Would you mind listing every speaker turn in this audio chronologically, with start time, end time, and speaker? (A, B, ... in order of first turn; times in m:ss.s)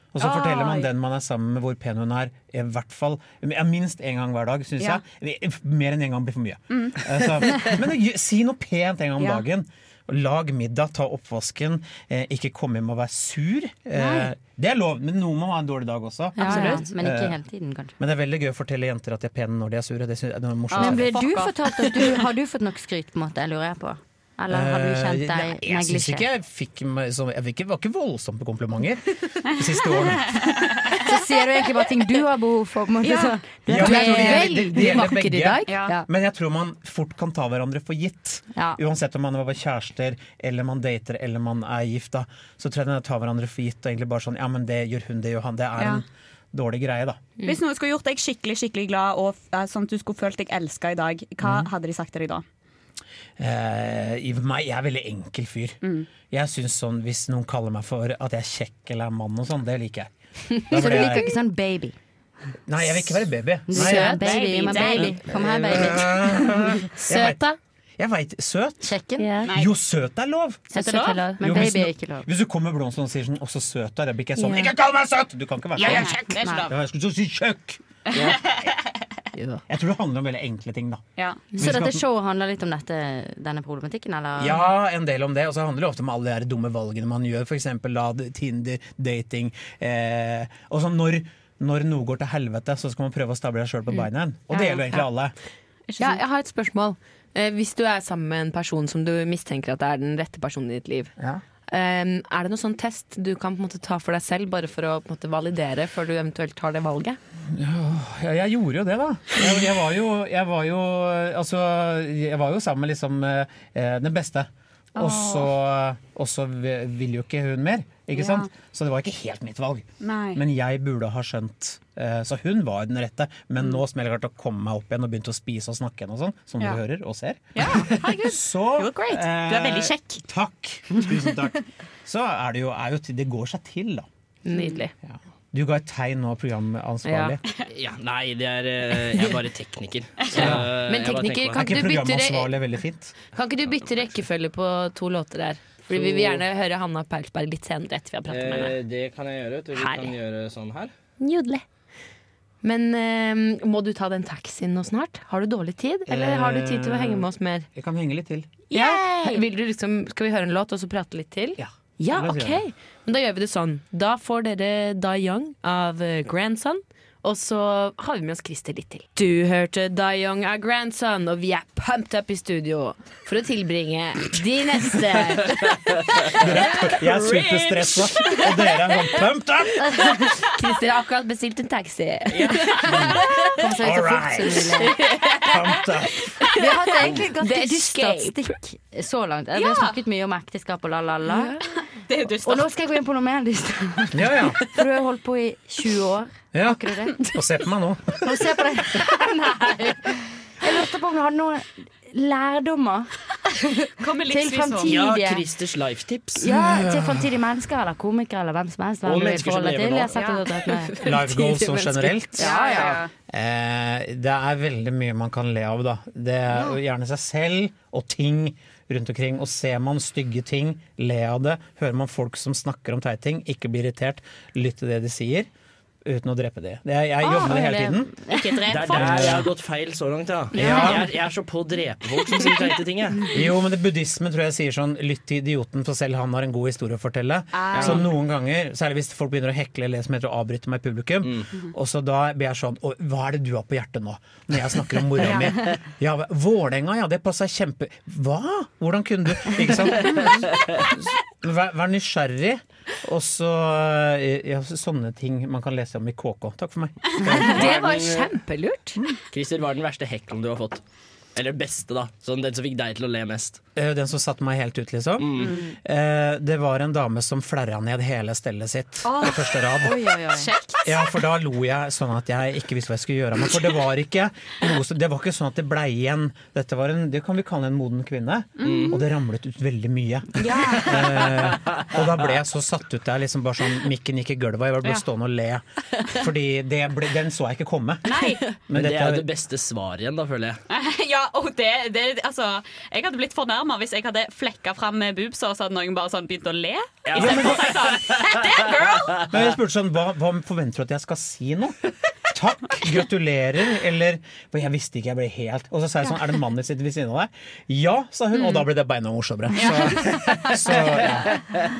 0:00.1-0:17.4 A
0:00.2-0:00.9 B
0:06.7-0:07.0 B
0:09.2-0:09.4 B
0:13.9-0:14.3 B
0:16.4-0:17.9 C
0:16.4-0:16.8 B
0:16.4-0:16.8 D
0:18.0-0:21.2 A
0:20.7-0:22.2 B
0:20.8-0:26.2 C
0:24.5-0:30.4 A
0:30.9-0:34.4 C
0:33.0-0:33.3 B
0:33.6-0:47.2 A
0:33.7-0:36.1 D
0:35.6-0:35.9 B
0:45.8-0:46.0 B
0:47.4-0:52.4 B
0:51.4-0:51.7 A
0:53.4-1:01.3 A
1:00.7-1:02.0 C
1:02.7-1:07.4 A
1:03.7-1:06.5 C
1:03.7-1:04.7 D
1:04.1-1:05.2 B
1:07.0-1:07.6 D
1:08.0-1:09.0 A
1:08.9-1:09.4 C
1:09.2-1:09.5 D
1:09.4-1:09.7 B
1:09.5-1:10.7 A
1:10.7-1:11.4 B
1:10.8-1:12.2 C
1:10.8-1:11.8 D
1:11.4-1:17.8 A
1:14.4-1:14.7 D
1:15.8-1:16.7 B
1:16.0-1:16.7 C
1:18.1-1:18.7 B
1:19.7-1:21.0 A
1:21.2-1:21.4 B
1:21.6-1:22.0 A
1:21.6-1:24.6 C
1:24.4-1:35.3 A
1:34.5-1:34.8 B
1:35.9-1:36.2 B
1:36.0-1:41.1 D
1:41.2-1:41.4 A
1:41.7-1:47.2 D
1:47.5-2:14.1 A
1:55.0-1:55.5 B
1:58.1-1:58.5 B
2:00.0-2:00.4 B
2:07.5-2:10.2 B
2:14.4-2:14.9 D
2:15.0-2:17.4 A
2:17.0-2:17.3 D
2:17.7-2:21.9 E
2:20.4-2:20.7 A
2:20.4-2:22.6 D
2:21.5-2:23.2 A
2:23.3-2:28.8 D
2:25.9-2:26.4 E
2:28.3-2:30.9 E
2:29.7-2:30.1 D
2:31.2-2:31.6 D
2:32.6-2:37.7 D
2:36.1-2:38.6 A
2:38.7-2:39.4 B
2:38.7-2:58.0 D
2:41.6-2:42.6 A
2:56.4-3:00.1 A
2:59.8-3:03.2 D
3:02.8-3:03.2 A
3:03.5-3:05.0 C
3:03.8-3:04.7 A
3:04.7-3:05.7 D
3:05.5-3:06.2 A
3:06.6-3:11.6 C
3:06.6-3:08.5 D
3:09.5-3:10.0 B
3:11.2-3:11.6 D
3:12.1-3:12.7 B
3:12.4-3:17.3 C
3:14.1-3:14.6 A
3:16.5-3:18.2 A
3:18.2-3:25.4 C
3:24.0-3:24.9 B
3:24.8-3:26.7 E
3:26.4-3:31.2 C
3:29.0-3:30.1 E
3:30.2-3:30.4 B
3:31.0-3:32.6 A
3:31.1-3:32.9 D
3:32.4-3:33.0 C
3:32.4-3:33.1 B
3:33.1-3:45.5 A
3:46.0-3:48.1 A
3:47.2-3:49.0 C
3:48.3-3:49.2 B
3:48.7-3:53.4 E
3:48.9-3:49.5 A
3:50.5-3:51.0 A
3:50.6-3:51.0 B
3:52.4-3:52.7 B
3:53.3-4:10.7 A
3:57.5-3:58.1 B
3:57.7-3:58.1 E
4:05.2-4:05.5 B
4:10.0-4:10.4 B
4:11.3-4:17.6 A
4:17.2-4:19.0 D
4:17.5-4:18.3 E
4:19.3-4:20.8 E
4:21.3-4:23.6 E
4:23.8-4:30.0 A
4:25.2-4:25.5 E
4:29.0-4:31.1 B
4:29.8-4:30.5 C
4:30.8-4:49.3 A
4:38.6-4:39.0 B
4:38.6-4:39.0 E
4:40.4-4:41.2 B
4:48.0-4:48.5 B
4:48.7-4:50.6 E
4:50.7-4:59.3 B
4:57.1-4:58.4 E
4:57.1-4:58.0 A
4:59.3-5:01.8 A
5:02.3-5:11.3 A
5:08.3-5:08.6 B
5:09.6-5:11.0 B